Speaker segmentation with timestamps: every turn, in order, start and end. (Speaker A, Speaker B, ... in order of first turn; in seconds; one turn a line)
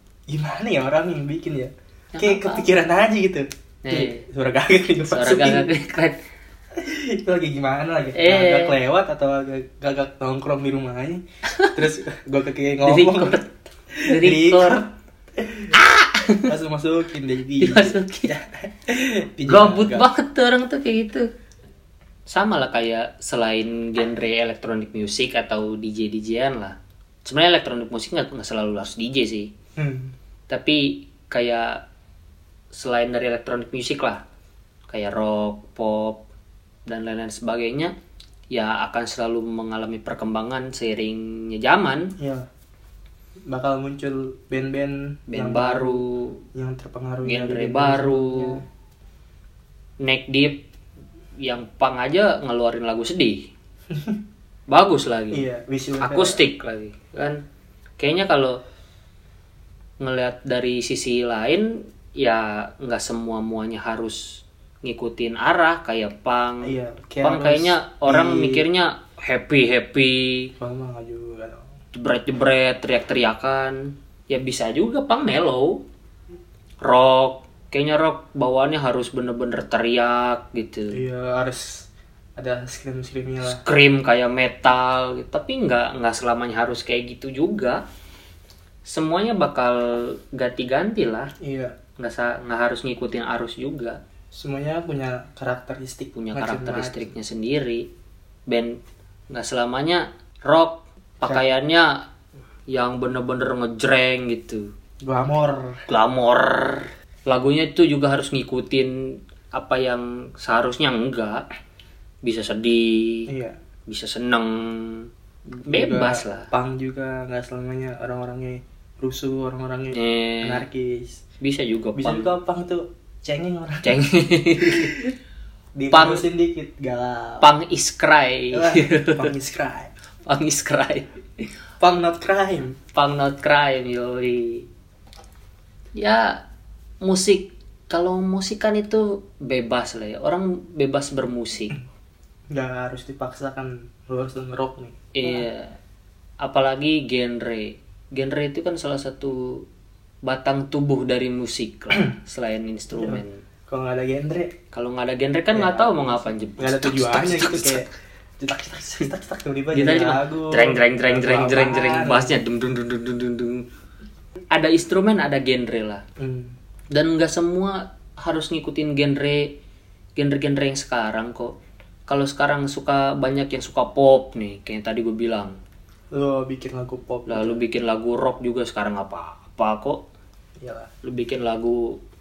Speaker A: 0.3-5.7
Speaker B: 2.1-2.7
Speaker B: 3.8-4.2
Speaker B: 5.1-6.2
Speaker A: 6.8-13.4
Speaker B: 8.2-8.8
Speaker B: 11.5-11.7
Speaker B: 12.8-13.5
Speaker A: 13.9-15.8
Speaker B: 14.1-14.8
Speaker B: 15.7-16.5
Speaker A: 16.4-20.1
Speaker B: 17.6-18.3
Speaker B: 19.5-21.3
Speaker B: 22.3-29.5
Speaker A: 29.8-30.1
Speaker B: 30.5-31.8
Speaker B: 32.7-34.2
Speaker B: 34.9-36.2
Speaker B: 36.9-37.9
Speaker B: 38.5-42.1
Speaker A: 42.2-42.5
Speaker A: 43.5-46.0
Speaker B: 45.3-46.4
Speaker A: 46.5-48.6
Speaker B: 47.2-48.6
Speaker B: 50.0-50.6
Speaker B: 51.4-53.5
Speaker A: 53.9-54.2
Speaker B: 54.7-55.4
Speaker A: 55.3-56.4
Speaker B: 56.0-57.4
Speaker B: 58.0-58.6
Speaker B: 60.0-70.5
Speaker A: 66.6-68.7
Speaker A: 70.6-71.7
Speaker B: 71.9-75.8
Speaker B: 76.8-81.0
Speaker A: 80.9-83.6
Speaker B: 83.5-87.8
Speaker B: 88.8-91.3
Speaker A: 91.4-91.8
Speaker B: 92.0-94.0
Speaker A: 94.3-97.1
Speaker B: 96.2-97.9
Speaker B: 98.5-98.8
Speaker B: 99.3-102.0
Speaker B: 102.7-104.7
Speaker A: 105.0-105.8
Speaker B: 105.9-111.5
Speaker B: 112.2-113.3
Speaker A: 113.3-113.6
Speaker B: 113.9-116.5
Speaker A: 115.7-121.2
Speaker B: 119.9-120.7
Speaker B: 121.4-122.3
Speaker A: 122.0-124.0
Speaker B: 123.8-125.0
Speaker A: 124.6-125.0
Speaker A: 125.8-127.5
Speaker B: 125.9-126.3
Speaker B: 127.4-129.3
Speaker A: 128.5-129.9
Speaker B: 130.3-131.5
Speaker A: 131.8-132.8
Speaker B: 132.9-134.7
Speaker B: 135.9-136.4
Speaker B: 137.0-141.8
Speaker A: 142.5-145.5
Speaker B: 145.1-145.8
Speaker B: 146.4-149.7
Speaker B: 150.2-153.4
Speaker A: 152.9-154.6
Speaker B: 154.7-157.8
Speaker A: 155.5-157.9
Speaker A: 158.4-162.4
Speaker B: 159.7-163.7
Speaker B: 164.5-166.0
Speaker A: 166.2-166.6
Speaker B: 166.9-169.6
Speaker B: 170.2-171.6
Speaker B: 172.1-175.6
Speaker A: 176.1-177.6
Speaker B: 177.3-180.0
Speaker A: 180.6-180.9
Speaker B: 181.0-182.0